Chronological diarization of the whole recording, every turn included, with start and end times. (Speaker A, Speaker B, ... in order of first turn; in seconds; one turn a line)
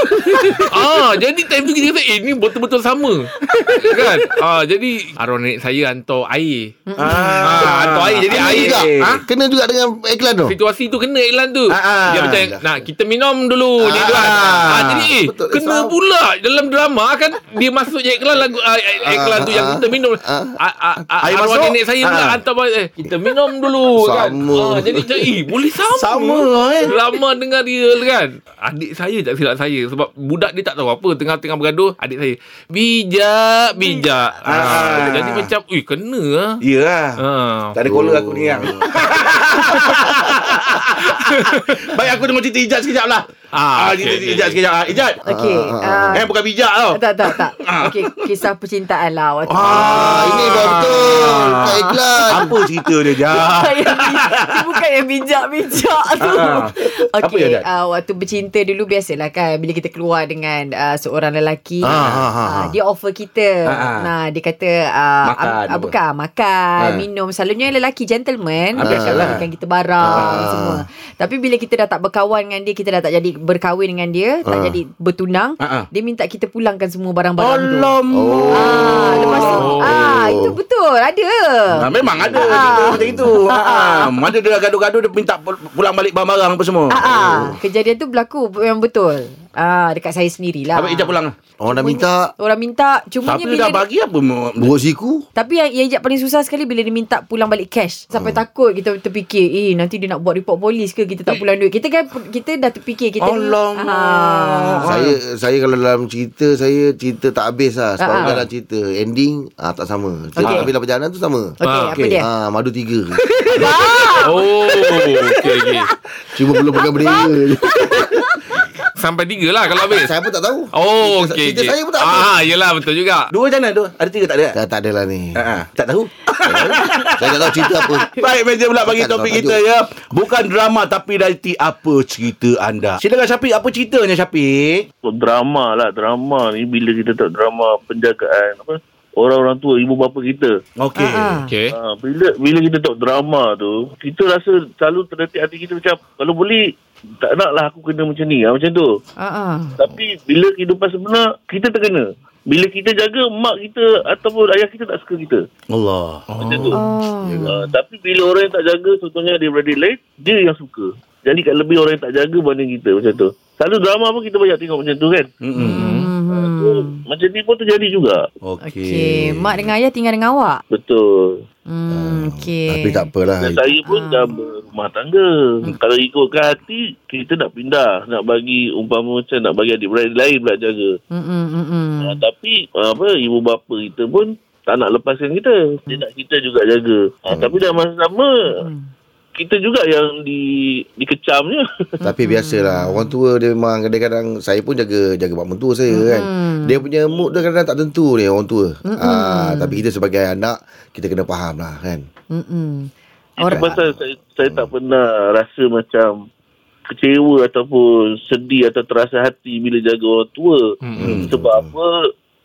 Speaker A: 0.2-3.3
Speaker B: 3.7-4.0
Speaker A: 3.9-6.8
Speaker C: 6.9-7.6
Speaker B: 7.0-9.1
Speaker A: 7.4-9.2
Speaker D: 8.3-10.6
Speaker A: 10.5-36.5
Speaker B: 11.7-12.4
Speaker D: 12.2-12.7
Speaker B: 13.9-15.1
Speaker D: 15.2-15.9
Speaker D: 19.1-20.6
Speaker B: 21.2-22.4
Speaker D: 23.9-25.1
Speaker B: 26.0-26.9
Speaker B: 34.5-35.5
Speaker B: 36.6-37.2
Speaker A: 37.2-37.8
Speaker B: 37.8-45.2
Speaker D: 37.9-39.0
Speaker A: 41.2-41.8
Speaker A: 43.5-44.6
Speaker C: 45.3-46.2
Speaker D: 45.3-46.2
Speaker B: 46.1-48.0
Speaker C: 46.9-50.5
Speaker B: 49.5-54.6
Speaker D: 49.6-52.5
Speaker C: 51.2-77.9
Speaker B: 56.2-57.6
Speaker D: 61.8-62.4
Speaker B: 61.9-62.7
Speaker B: 63.7-64.1
Speaker B: 65.2-65.9
Speaker B: 66.8-67.0
Speaker B: 68.8-69.4
Speaker D: 68.8-69.4
Speaker D: 70.0-70.8
Speaker B: 70.1-70.4
Speaker D: 74.5-74.8
Speaker B: 75.6-75.9
Speaker B: 77.4-79.8
Speaker D: 78.1-80.6
Speaker C: 78.5-84.2
Speaker A: 79.4-80.0
Speaker B: 81.7-87.0
Speaker D: 82.3-83.3
Speaker C: 86.9-91.1
Speaker D: 87.1-87.6
Speaker B: 90.8-91.3
Speaker D: 91.6-92.3
Speaker C: 91.7-93.8
Speaker B: 93.2-94.7
Speaker D: 94.6-95.2
Speaker C: 95.4-104.8
Speaker D: 98.1-98.4
Speaker B: 103.2-105.2
Speaker D: 104.9-111.5
Speaker C: 108.0-108.4
Speaker C: 110.4-110.7
Speaker C: 111.6-112.2
Speaker A: 111.7-112.0
Speaker B: 111.9-112.2
Speaker D: 112.2-113.2
Speaker C: 113.6-114.5
Speaker A: 114.2-115.9
Speaker C: 115.1-115.9
Speaker D: 116.3-118.1
Speaker C: 116.8-118.6
Speaker A: 119.0-120.1
Speaker D: 119.8-122.3
Speaker A: 120.8-123.3
Speaker B: 123.3-124.6
Speaker D: 124.5-125.4
Speaker B: 125.4-134.9
Speaker D: 126.4-128.1
Speaker D: 128.8-129.6
Speaker E: 135.0-140.6
Speaker B: 140.8-141.4
Speaker C: 141.0-141.5
Speaker A: 141.5-141.7
Speaker E: 141.8-146.6
Speaker E: 147.2-148.9
Speaker C: 149.2-149.8
Speaker E: 149.8-155.4
Speaker B: 155.7-156.2
Speaker A: 156.3-156.8
Speaker E: 156.4-156.8
Speaker C: 156.7-157.6
Speaker D: 157.2-157.5
Speaker E: 157.5-165.3
Speaker B: 165.4-165.9
Speaker A: 165.6-166.1
Speaker C: 165.7-167.0
Speaker E: 166.3-168.2
Speaker B: 168.5-169.1
Speaker C: 168.6-170.6
Speaker D: 169.3-169.7
Speaker E: 170.7-171.4
Speaker C: 171.7-173.1
Speaker D: 171.9-173.7
Speaker E: 173.4-180.9
Speaker C: 173.8-174.5
Speaker C: 181.1-182.2
Speaker E: 182.0-188.6
Speaker C: 188.6-188.8
Speaker E: 189.4-191.7
Speaker C: 192.0-193.1
Speaker D: 192.1-202.1
Speaker C: 195.9-196.8
Speaker C: 198.8-199.8
Speaker C: 202.3-203.8
Speaker E: 203.4-206.2
Speaker E: 206.9-210.7
Speaker A: 210.8-211.1
Speaker B: 211.0-211.4
Speaker D: 211.0-211.7
Speaker E: 211.3-211.9